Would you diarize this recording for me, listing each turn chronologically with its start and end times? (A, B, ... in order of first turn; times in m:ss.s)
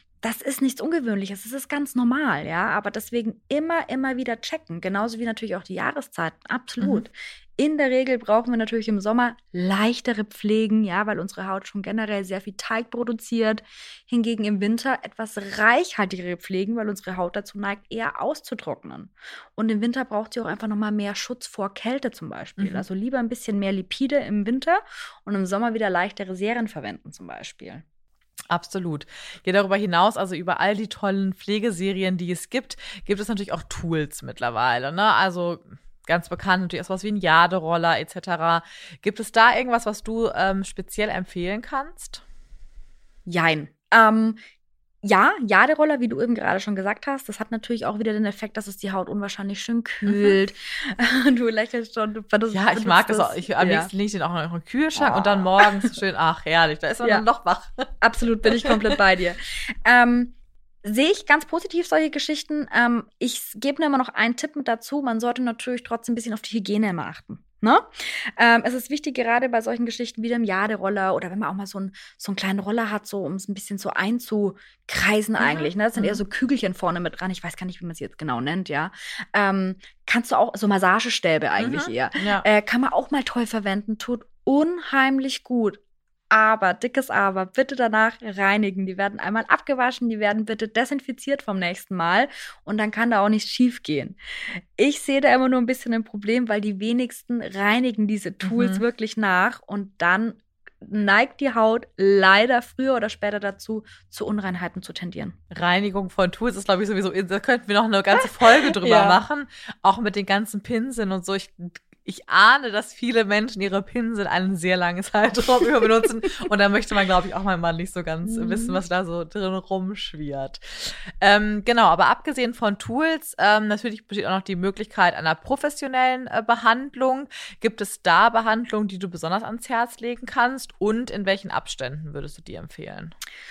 0:00.2-0:27.8 A
0:22.6-0:22.8 B
0:28.5-0:42.2 B
0:43.3-0:44.4 A
0:45.0-0:53.9 A
0:50.1-0:50.4 B
0:52.5-0:57.9 B
0:55.0-0:55.8 A
0:58.0-1:25.8 A
0:58.5-0:58.8 B
1:15.4-1:16.2 B
1:21.6-1:22.4 B
1:26.3-1:34.2 A
1:34.8-1:45.4 A
1:38.5-1:38.8 B
1:45.5-2:13.2 B
1:48.8-1:49.2 A
1:58.4-1:58.8 A